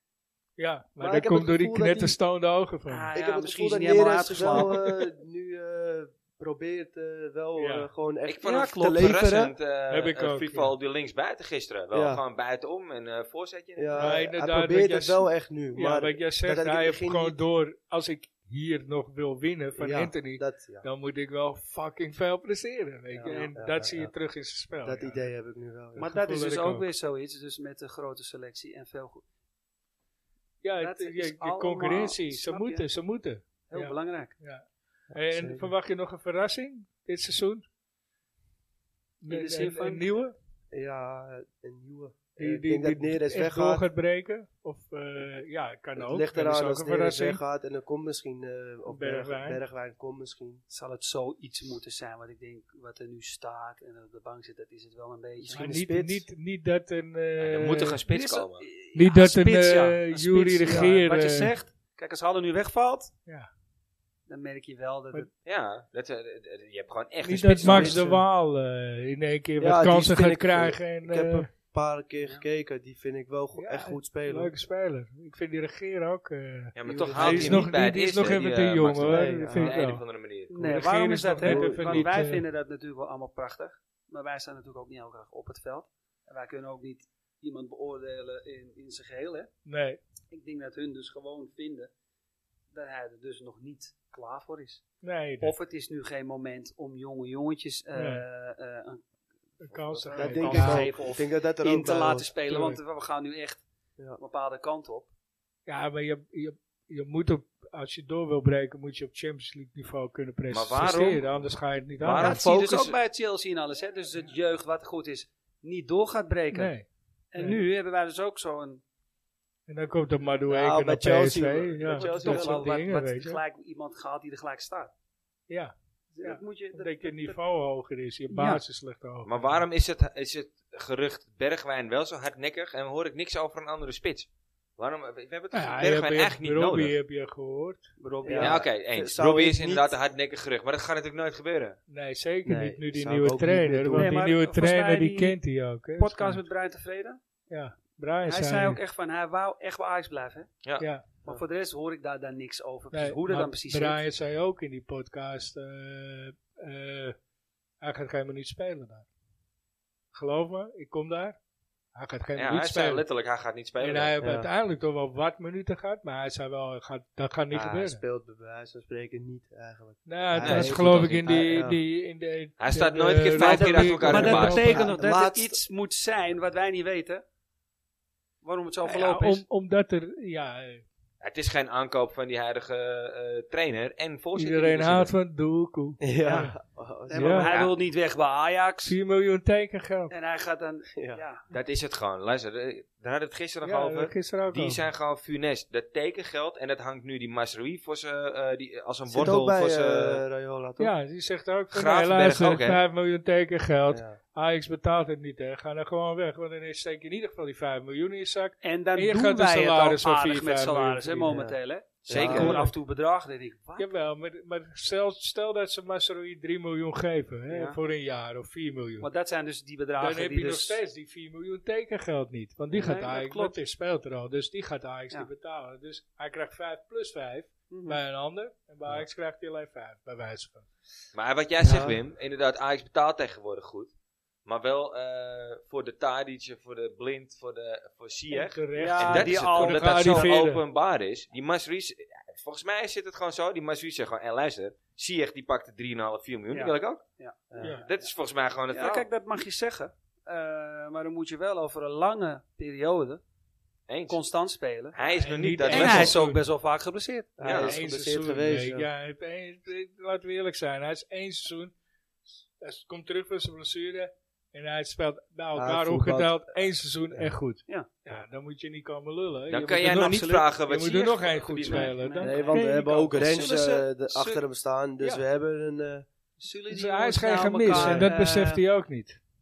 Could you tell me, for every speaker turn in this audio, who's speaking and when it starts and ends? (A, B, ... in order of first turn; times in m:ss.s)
0:00.6-0:03.2 A
0:01.0-0:02.2 B
0:02.9-0:04.7 C
0:03.1-0:09.5 B
0:04.5-0:05.0 A
0:07.6-0:07.9 A
0:08.2-0:14.2 D
0:08.4-0:08.7 C
0:09.9-0:10.7 A
0:11.9-0:12.2 B
0:13.8-0:17.4 B
0:14.0-0:25.2 A
0:19.8-0:20.8 B
0:23.1-0:24.1 B
0:23.2-0:23.5 C
0:24.8-0:26.1 B
0:26.0-0:26.8 A
0:26.0-0:29.2 C
0:30.6-0:37.6 A
0:30.8-0:32.9 C
0:33.7-0:34.3 C
0:35.1-0:35.7 B
0:39.2-0:40.4 A
0:39.3-0:40.1 C
0:40.7-0:43.8 B
0:42.4-0:47.4 A
0:46.0-0:50.6 B
0:48.9-0:49.6 A
0:50.7-0:55.7 C
0:55.4-0:56.2 B
0:55.5-0:58.0 A
0:57.4-0:58.6 D
0:58.1-1:03.1 C
0:58.9-1:01.5 A
1:00.6-1:00.9 B
1:04.3-1:05.3 C
1:05.4-1:08.0 D
1:07.2-1:11.5 A
1:07.6-1:08.2 B
1:09.6-1:14.5 B
1:13.5-1:20.0 A
1:16.7-1:20.5 D
1:16.8-1:17.7 B
1:19.0-1:19.7 B
1:20.5-1:29.5 C
1:20.5-1:22.4 A
1:21.4-1:22.1 B
1:29.6-1:30.0 A
1:30.3-1:31.9 C
1:32.7-1:34.8 C
1:35.0-1:35.5 A
1:35.4-1:39.0 C
1:37.9-1:38.2 A
1:39.6-1:41.0 A
1:39.7-1:43.6 C
1:40.0-1:42.3 B
1:42.5-1:42.8 A
1:44.2-1:45.1 C
1:45.7-1:52.4 A
1:50.5-1:51.2 D
1:52.0-1:53.0 D
1:52.1-1:56.7 C
1:56.5-1:56.8 A
1:57.3-1:58.8 C
1:59.7-2:03.4 A
2:00.5-2:02.7 B
2:01.9-2:04.9 C
2:05.5-2:09.6 A
2:06.1-2:07.4 C
2:08.3-2:08.6 C
2:09.2-2:16.9 D
2:15.5-2:18.0 A
2:18.0-2:18.7 C
2:18.2-2:19.9 B
2:18.4-2:21.8 D
2:21.9-2:26.4 A
2:22.4-2:24.2 B
2:23.9-2:25.3 C
2:26.0-2:27.2 C
2:27.5-2:28.8 A
2:28.2-2:30.5 C
2:30.8-2:31.0 A
2:31.2-2:34.0 C
2:32.9-2:37.1 A
2:37.8-2:39.0 A
2:40.1-2:41.4 A
2:41.9-2:43.0 A
2:42.3-2:44.2 D
2:43.8-2:48.0 A
2:44.2-2:44.5 B
2:47.5-2:51.8 B
2:50.0-2:54.9 A
2:50.4-2:51.4 D
2:52.6-2:54.8 D
2:53.3-2:57.2 C
2:54.0-2:55.6 B
2:58.4-2:59.4 C
2:58.8-3:00.8 A
3:01.2-3:05.1 D
3:04.3-3:06.5 A
3:06.0-3:07.5 B
3:07.1-3:09.0 C
3:07.1-3:07.5 A
3:07.5-3:07.7 D
3:08.8-3:10.1 A
3:10.1-3:11.4 C
3:10.9-3:11.2 B
3:11.5-3:20.2 D
3:13.6-3:14.8 A
3:19.1-3:20.9 B
3:20.8-3:31.4 A
3:21.7-3:22.8 D
3:23.9-3:24.2 B
3:28.6-3:33.9 C
3:31.3-3:32.6 B
3:32.1-3:32.6 D
3:32.2-3:32.7 A
3:33.8-3:39.1 A
3:39.0-3:40.8 C
3:40.0-3:50.7 A
3:42.7-3:43.6 C
3:47.7-3:48.0 C
3:51.1-3:53.9 D
3:51.6-3:52.0 B
3:54.4-4:07.0 D
3:58.3-4:00.6 A
3:58.7-4:00.3 C
4:06.5-4:08.0 C
4:07.5-4:07.8 B
4:07.6-4:07.8 A
4:07.7-4:09.0 D
4:08.7-4:13.2 C
4:13.9-4:14.2 D
4:14.1-4:15.0 C
4:14.9-4:16.2 D
4:15.2-4:16.4 A
4:15.6-4:17.4 C
4:17.4-4:18.9 B
4:17.4-4:17.8 D
4:17.4-4:21.7 A
4:22.6-4:33.2 A
4:25.5-4:26.5 B
4:29.5-4:31.9 D
4:29.8-4:30.4 C
4:31.6-4:34.4 C
4:32.2-4:36.0 B
4:36.4-4:38.6 C
4:36.7-4:39.2 A
4:37.7-4:38.1 B